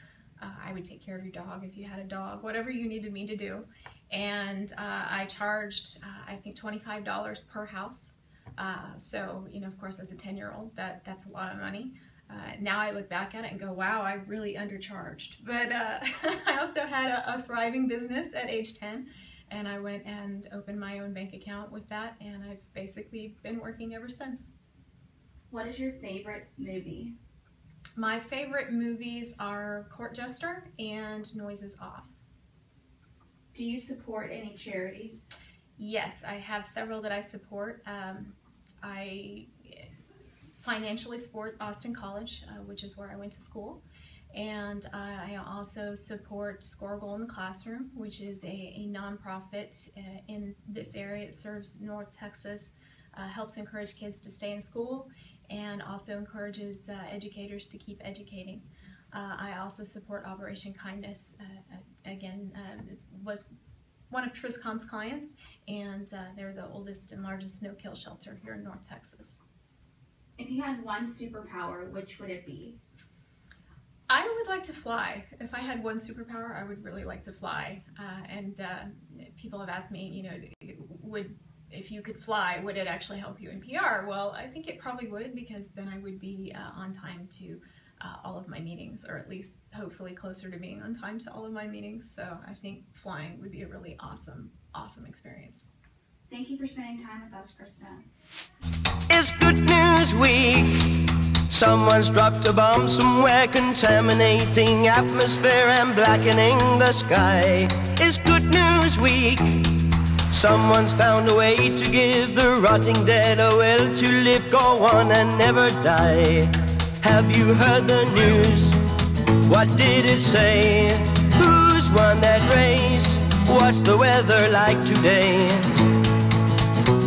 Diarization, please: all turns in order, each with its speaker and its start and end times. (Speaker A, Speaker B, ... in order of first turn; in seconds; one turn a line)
Speaker A: 0.4-24.5
Speaker B: 25.5-27.1
Speaker A: 27.9-32.1
Speaker B: 33.5-35.3
Speaker A: 35.8-39.9
Speaker A: 40.6-63.5
Speaker A: 64.1-69.4
Speaker B: 70.4-72.8
Speaker A: 74.1-95.7
Speaker B: 96.3-98.1
Speaker C: 99.1-109.7
Speaker C: 110.3-118.8
Speaker C: 119.4-125.7